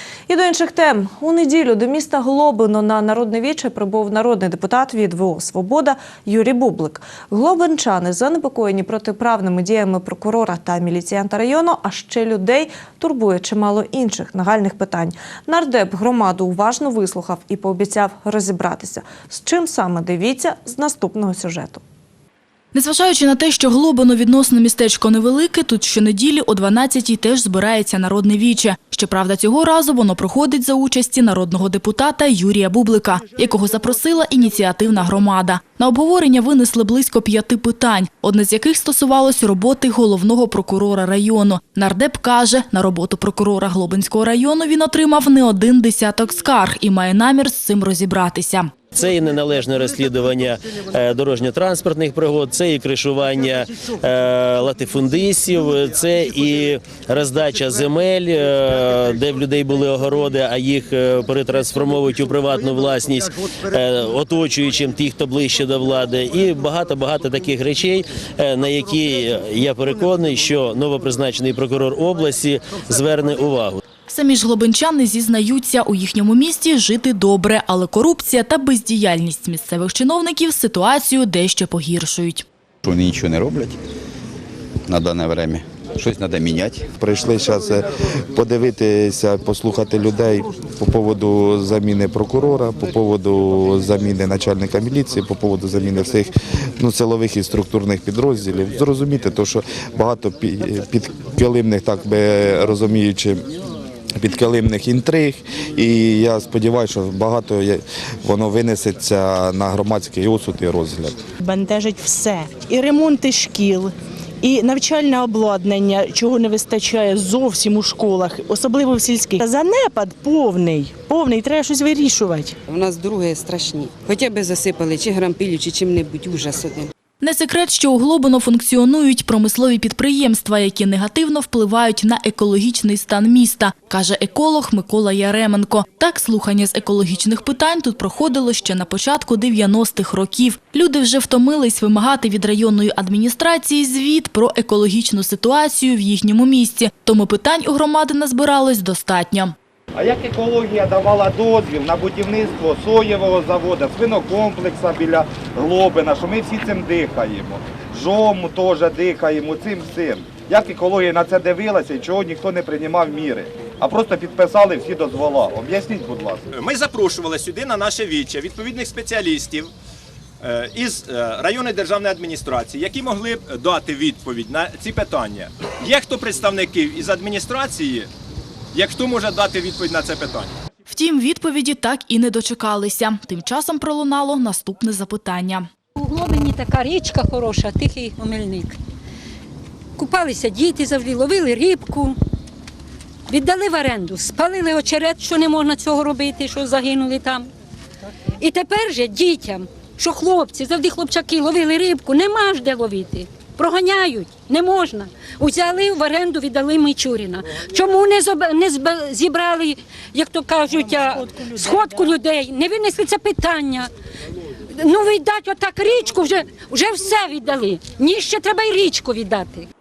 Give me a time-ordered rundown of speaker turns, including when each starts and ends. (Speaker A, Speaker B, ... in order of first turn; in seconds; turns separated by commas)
Speaker A: 0.3-21.8, Speaker B: 22.7-48.7, Speaker C: 48.9-73.8, Speaker B: 74.1-82.5, Speaker D: 82.8-83.8, Speaker D: 84.9-103.4, Speaker D: 104.2-111.2, Speaker E: 111.4-122.5, Speaker F: 122.7-126.9, Speaker B: 127.2-149.5, Speaker G: 149.9-166.5, Speaker H: 166.5-169.7, Speaker H: 170.4-178.1, Speaker H: 178.7-180.6, Speaker B: 180.9-185.7, Speaker I: 186.0-188.8, Speaker I: 190.0-192.2, Speaker I: 193.3-197.5, Speaker I: 198.4-213.9, Speaker E: 210.9-211.9, Speaker I: 214.7-219.7